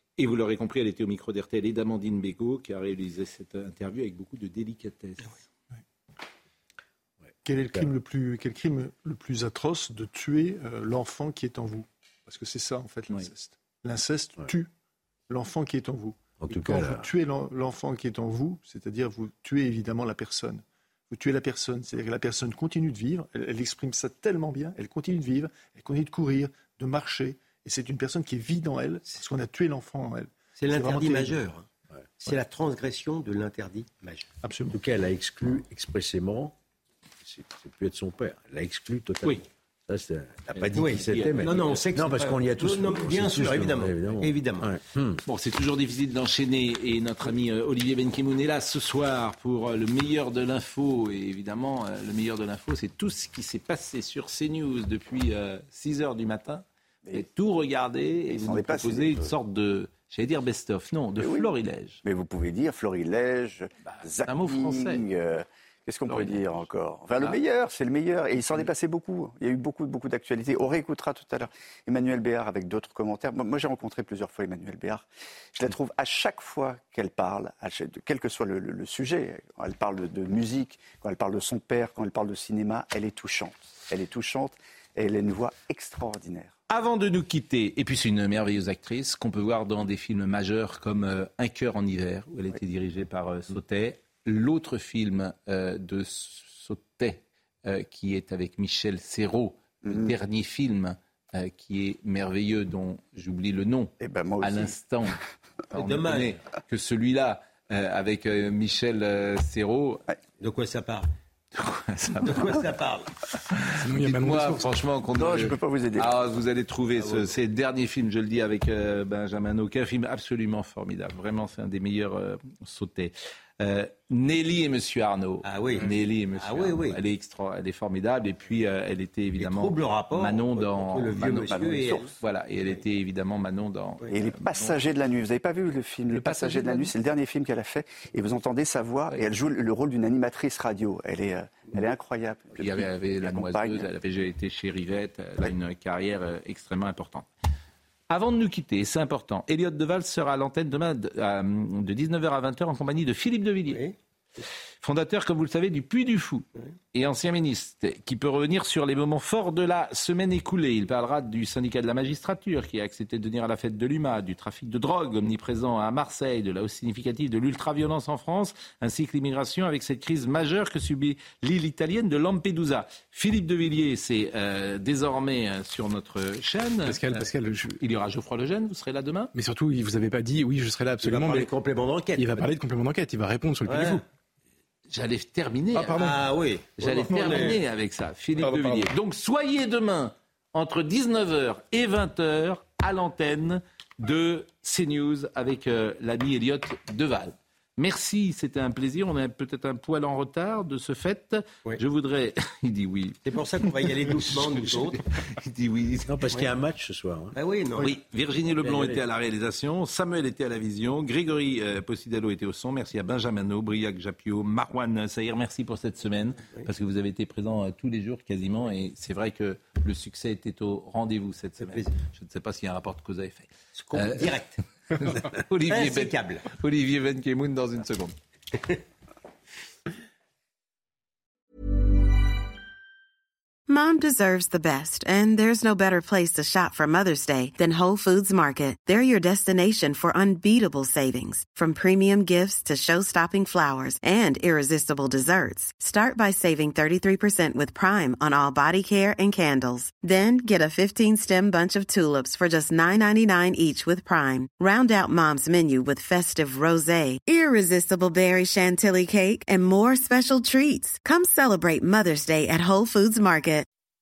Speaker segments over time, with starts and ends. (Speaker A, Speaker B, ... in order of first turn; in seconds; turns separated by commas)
Speaker A: 0.2-5.4, Speaker B: 7.3-7.9, Speaker C: 7.5-14.7, Speaker C: 15.3-31.5, Speaker B: 16.4-17.1, Speaker D: 30.6-31.7, Speaker D: 32.2-34.3, Speaker C: 34.4-34.8, Speaker B: 34.7-36.6, Speaker B: 37.2-45.2, Speaker A: 40.5-41.8, Speaker D: 40.8-44.7, Speaker A: 45.3-62.0, Speaker E: 58.3-59.3, Speaker E: 61.2-61.5, Speaker E: 62.0-86.5, Speaker A: 63.9-65.0, Speaker A: 86.7-105.2, Speaker E: 99.8-100.1, Speaker E: 104.0-104.7, Speaker A: 105.7-110.0, Speaker D: 105.8-106.4, Speaker D: 110.4-111.1, Speaker A: 111.5-112.6, Speaker D: 112.2-113.1, Speaker A: 113.6-134.8, Speaker F: 113.8-114.7, Speaker E: 115.1-116.1, Speaker D: 117.0-117.3, Speaker D: 125.4-127.0, Speaker D: 129.4-132.1, Speaker E: 134.1-143.9, Speaker A: 136.1-136.9, Speaker A: 142.6-147.3, Speaker A: 148.1-153.8, Speaker D: 153.7-153.9, Speaker A: 154.8-177.1, Speaker F: 176.9-177.8, Speaker A: 177.8-179.3, Speaker F: 179.3-181.5, Speaker D: 181.0-182.5, Speaker F: 182.2-184.0, Speaker D: 183.7-184.0, Speaker A: 184.9-186.1, Speaker F: 185.7-186.2, Speaker D: 185.9-187.6, Speaker A: 186.8-203.2, Speaker F: 187.2-187.5, Speaker F: 188.4-188.9, Speaker D: 203.2-205.0, Speaker A: 203.8-206.2, Speaker B: 206.1-207.4, Speaker D: 207.3-208.0, Speaker A: 207.8-224.4, Speaker B: 208.5-209.0, Speaker D: 221.6-221.9, Speaker D: 223.8-225.2, Speaker A: 225.0-228.1, Speaker D: 225.7-226.5, Speaker G: 233.7-263.7